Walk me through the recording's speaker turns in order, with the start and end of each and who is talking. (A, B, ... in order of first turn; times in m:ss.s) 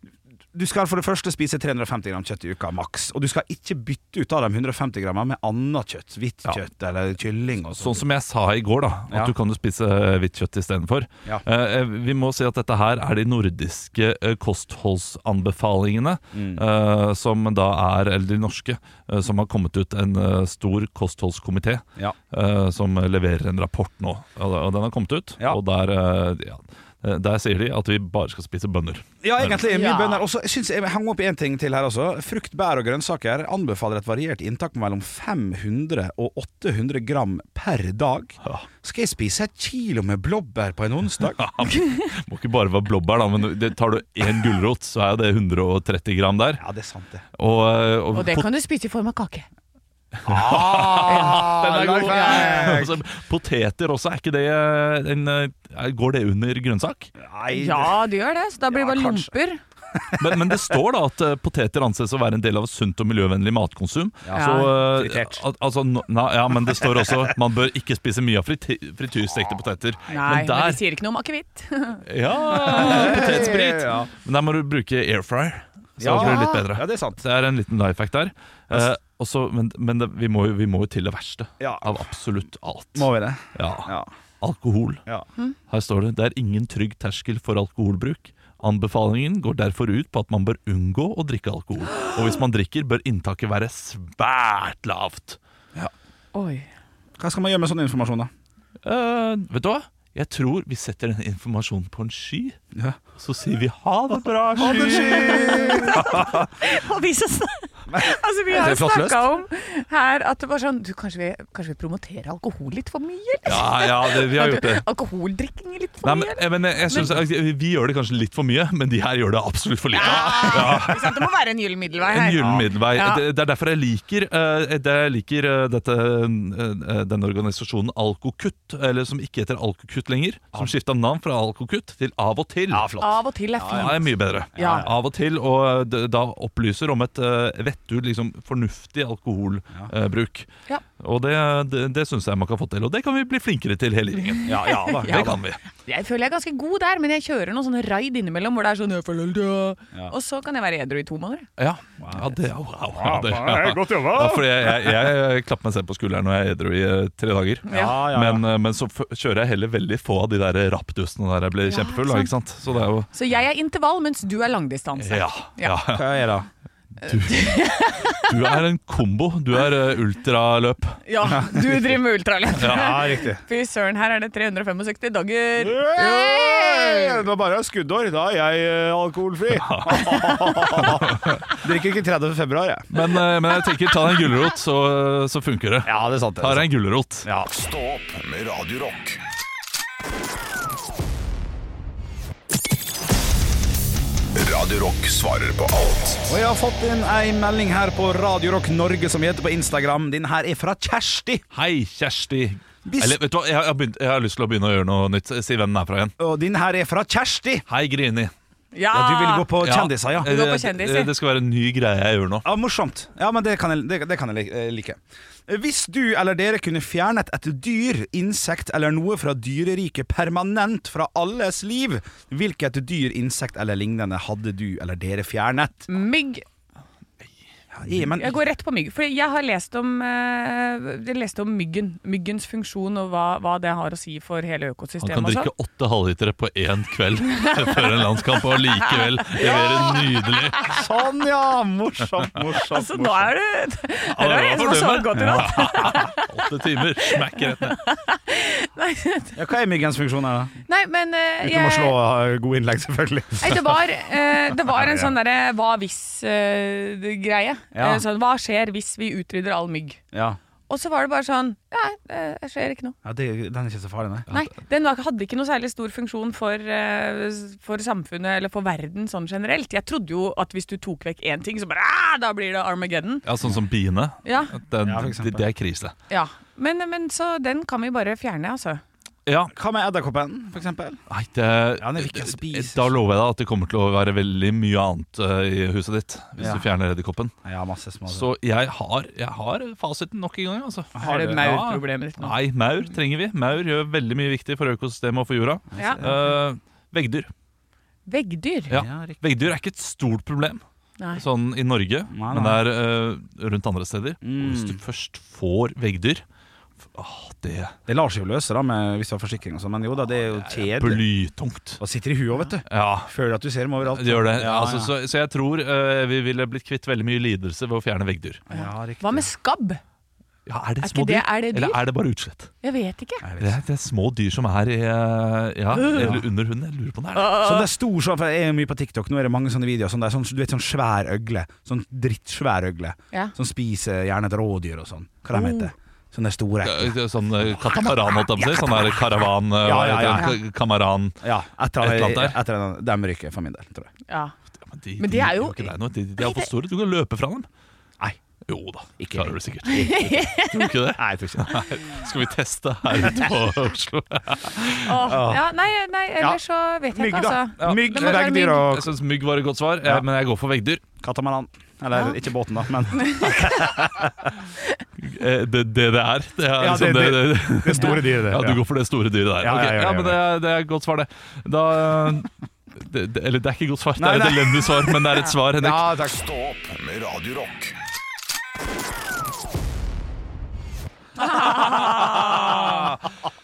0:00.5-0:08.0 A
0:07.8-0:29.5 B
0:16.3-0:16.6 A
0:29.2-0:41.4 A
0:29.6-0:30.2 C
0:41.3-0:46.6 B
0:46.6-0:47.2 A
0:47.4-0:48.5 B
0:48.1-0:49.5 C
0:50.2-0:53.0 A
0:50.2-0:57.1 B
0:51.1-0:52.8 C
0:57.2-0:58.0 A
0:57.5-0:59.6 C
0:58.7-0:59.3 A
1:00.0-1:00.8 A
1:00.2-1:10.8 B
1:04.2-1:05.4 A
1:04.3-1:04.8 C
1:06.8-1:07.1 A
1:10.1-1:13.4 C
1:12.1-1:25.0 B
1:12.7-1:14.1 A
1:16.0-1:17.2 A
1:16.2-1:16.7 C
1:21.6-1:22.0 A
1:23.0-1:24.1 A
1:25.7-1:35.4 B
1:36.3-1:36.7 C
1:37.2-1:38.3 A
1:38.8-1:42.6 B
1:43.2-1:46.0 B
1:44.6-1:46.5 A
1:44.6-1:57.2 C
1:47.9-1:49.2 A
1:53.4-1:54.8 B
1:56.0-2:01.2 B
1:56.9-1:57.2 A
1:59.9-2:03.2 C
2:00.4-2:00.9 A
2:02.1-2:12.9 B
2:02.4-2:02.7 A
2:12.7-2:14.9 A
2:13.0-2:14.9 C
2:13.7-2:20.5 B
2:21.0-2:25.6 B
2:24.4-2:31.5 C
2:24.5-2:25.4 A
2:31.6-2:43.1 B
2:32.0-2:32.4 A
2:32.9-2:35.0 A
2:37.7-2:38.0 C
2:37.7-2:38.4 A
2:41.6-2:42.3 C
2:43.1-2:45.8 C
2:45.0-2:46.1 B
2:45.9-2:46.5 A
2:47.0-2:47.6 B
2:47.0-2:48.6 C
2:48.3-2:51.0 B
2:51.1-2:57.2 C
2:52.6-2:53.1 B
2:52.6-2:53.4 A
2:55.6-3:02.9 A
2:59.5-3:01.5 B
3:00.1-3:00.8 C
3:02.9-3:07.3 B
3:05.8-3:06.7 A
3:07.2-3:07.5 A
3:07.5-3:09.2 D
3:14.4-3:16.4 D
3:16.3-3:21.4 A
3:21.5-3:26.1 B
3:22.9-3:23.2 A
3:26.2-3:27.6 A
3:27.7-3:28.3 B
3:28.7-3:29.5 C
3:28.9-3:30.3 A
3:29.6-3:32.4 B
3:30.2-3:31.1 C
3:32.4-3:45.9 A
3:45.9-3:46.4 C
3:47.7-3:48.4 A
3:48.2-3:55.5 C
3:55.0-4:00.7 B
3:57.3-3:58.1 C
3:58.9-4:00.8 C
4:00.6-4:03.3 A
4:02.7-4:09.4 C
4:04.1-4:07.8 B
4:05.2-4:06.0 A
4:09.4-4:10.6 A
4:10.7-4:12.0 C
4:11.4-4:13.6 A
4:13.4-4:20.0 C
4:14.7-4:15.1 A
4:17.7-4:18.0 A
4:20.1-4:20.4 A
4:20.7-4:23.0 C
4:23.0-4:24.3 A
4:24.3-4:33.2 C
4:33.3-4:35.9 B
4:34.2-4:34.5 C
4:34.8-4:35.4 A
4:36.1-4:38.8 C
4:39.3-4:39.5 B
4:39.5-4:41.0 A
4:41.1-4:47.3 B
4:41.8-4:43.0 A
4:46.4-4:46.6 A
4:47.4-4:48.3 A
4:48.1-4:57.3 B
4:51.0-4:52.4 C
4:51.0-4:51.4 A
4:55.7-4:56.3 A
4:55.8-4:56.0 C
4:58.1-4:58.8 C
4:58.7-5:00.6 B
4:58.7-4:59.2 A
5:01.2-5:06.2 B
5:02.1-5:02.6 A
5:04.2-5:04.8 A
5:06.9-5:07.8 B
5:07.9-5:11.0 A
5:10.4-5:11.8 B
5:11.8-5:14.9 A
5:12.7-5:13.1 B
5:13.9-5:18.4 B
5:18.5-5:19.3 A
5:18.5-5:19.8 C
5:20.5-5:22.5 B
5:20.8-5:21.8 C
5:22.6-5:23.3 C
5:23.2-5:23.6 A
5:23.4-5:27.4 B
5:25.8-5:26.2 C
5:25.9-5:26.3 A
5:27.1-5:27.7 C
5:27.4-5:39.0 A
5:35.3-5:35.7 C
5:36.6-5:41.2 B
5:39.6-5:40.4 A
5:41.2-5:43.9 A
5:41.8-5:42.4 B
5:44.1-5:44.4 C
5:44.6-5:47.5 B
5:45.0-5:46.5 C
5:48.5-5:55.0 B
5:49.0-5:49.4 A
5:49.6-5:50.7 C
5:51.0-5:51.9 A
5:53.0-5:53.3 A
5:54.8-5:58.7 C
5:55.0-5:55.4 A
5:56.9-5:58.9 A
5:57.6-6:00.8 B
6:01.0-6:04.3 A
6:03.0-6:03.7 C
6:05.0-6:15.9 B
6:06.6-6:08.6 A
6:09.4-6:10.2 A
6:14.0-6:16.2 A
6:16.0-6:17.8 D
6:21.2-6:22.4 C
6:21.4-6:23.0 B